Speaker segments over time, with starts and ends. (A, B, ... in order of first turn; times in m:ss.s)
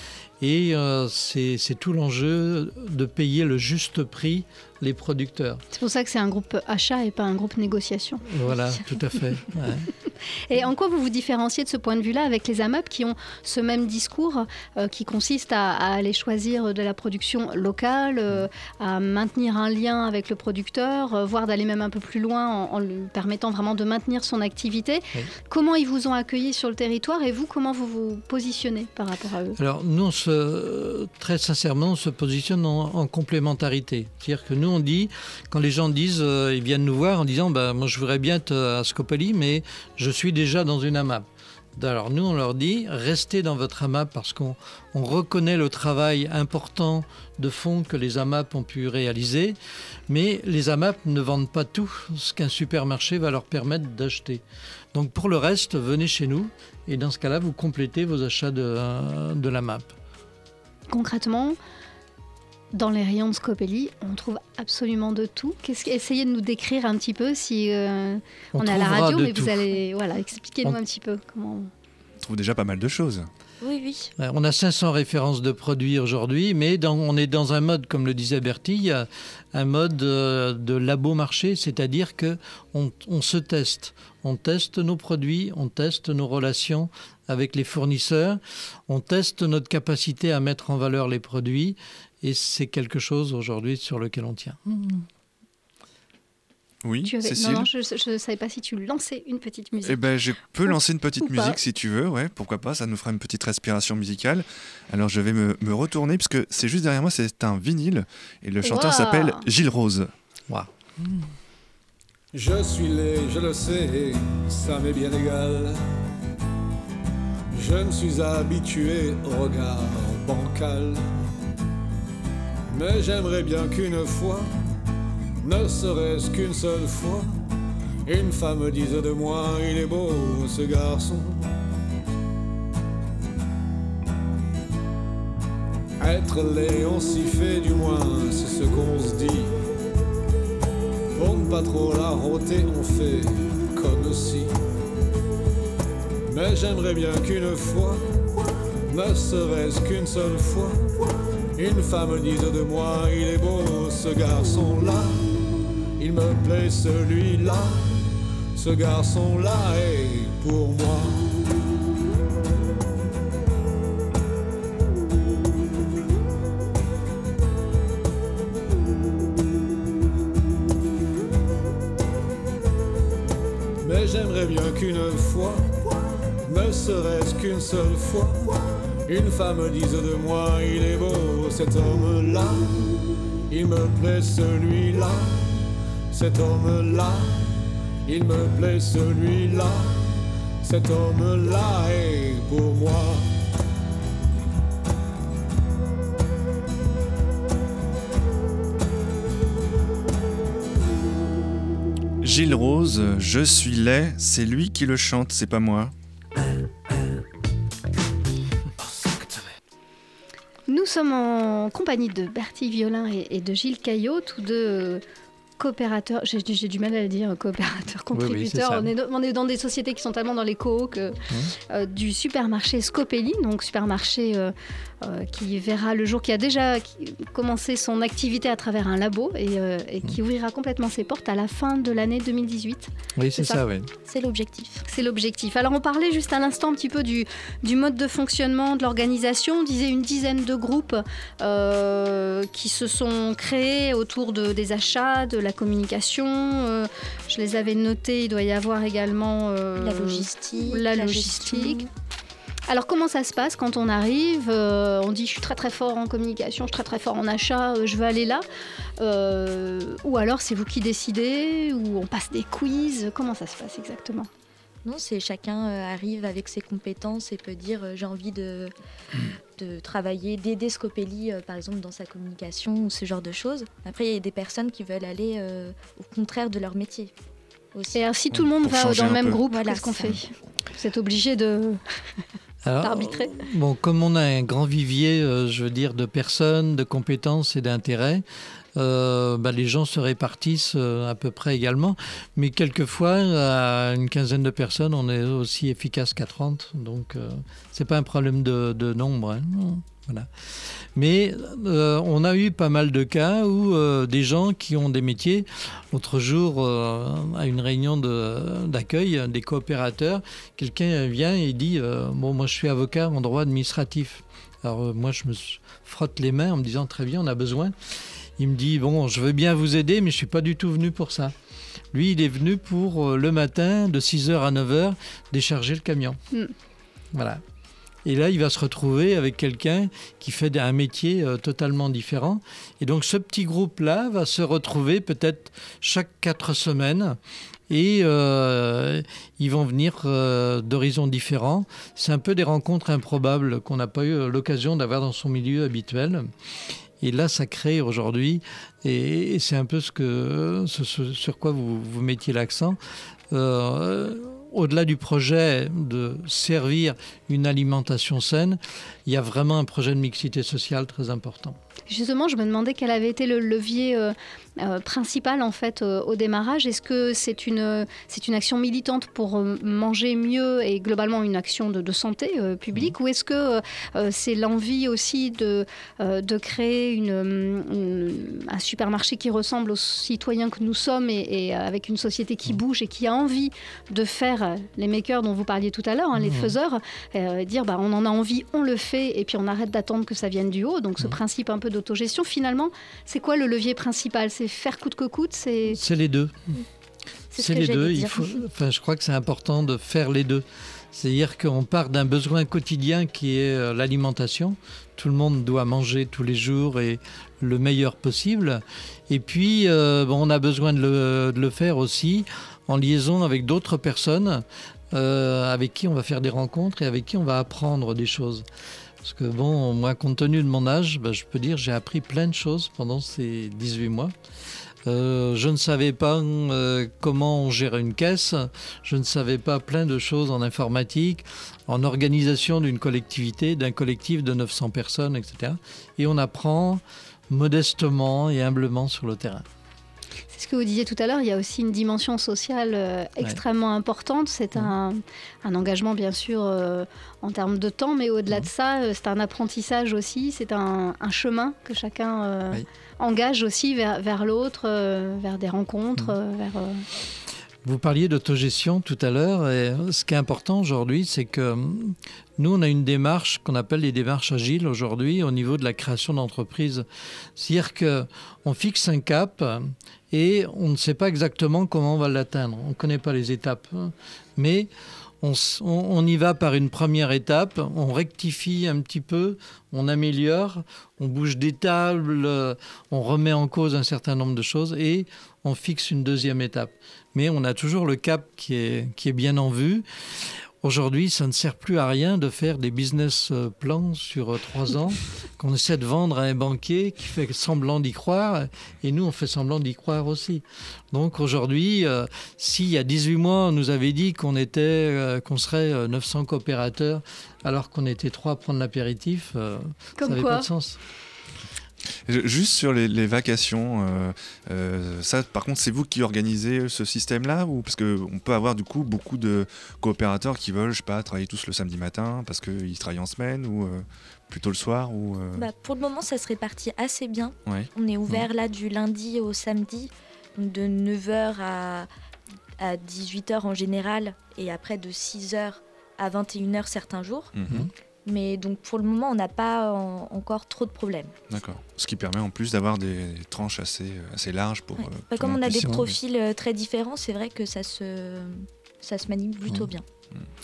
0:00.4-0:05.6 A
0:05.7-0:08.2 B
0:08.3-0:09.9 A
0:10.5-0:29.6 B
0:29.6-0:49.6 A
0:50.1-0:59.9 A
1:00.9-1:01.6 B
1:02.7-1:11.7 B
1:08.5-1:09.8 A
1:12.2-1:13.3 C
1:13.6-1:14.1 D
1:14.2-1:35.1 A
1:36.8-1:37.7 C
1:37.0-1:40.0 B
1:39.8-1:50.1 C
1:40.7-1:41.6 B
1:48.6-1:49.4 B
1:50.5-1:51.4 A
1:52.3-1:55.8 E
1:57.5-2:01.2 E
2:02.7-2:04.6 E
2:05.4-2:07.4 E
2:08.1-2:11.5 E
2:16.0-2:19.6 E
2:21.2-2:24.6 E
2:26.3-2:28.0 E
2:28.9-2:31.0 E
2:31.6-2:35.4 E
2:36.0-2:41.4 E
2:53.8-2:55.7 E
2:56.4-3:13.3 E
3:22.2-3:25.9 C
3:30.7-3:35.0 B
3:35.6-3:53.6 B
3:38.1-3:38.9 A
3:53.2-3:53.9 A
3:54.1-3:54.8 D
3:54.9-4:11.8 B
4:09.8-4:11.9 D
4:12.7-4:18.4 B
4:19.0-4:24.3 B
4:24.8-4:28.7 D
4:29.6-4:37.1 D
4:37.7-4:38.0 D
4:37.9-4:41.8 B
4:38.4-4:39.4 C
4:39.4-4:40.2 D
4:42.6-4:48.2 A
4:42.8-4:43.4 B
4:48.8-5:21.3 A
5:21.9-5:26.2 A
5:27.1-5:27.4 A
5:28.0-5:46.3 A
5:47.0-5:52.8 A
5:53.3-6:01.6 A
6:01.9-6:35.8 B
6:26.2-6:26.5 A
6:35.7-6:36.5 A
6:37.3-6:38.3 D
6:37.3-6:58.5 A
6:59.0-7:04.2 A
7:04.8-7:19.4 A
7:20.3-7:36.9 B
7:37.6-8:30.8 A
8:30.0-8:30.5 B
8:32.1-8:45.5 C
8:45.4-8:51.9 D
8:52.6-8:57.3 D
8:57.4-8:57.7 C
8:58.1-9:01.1 D
9:01.3-9:05.9 C
9:04.8-9:09.8 D
9:05.6-9:05.9 A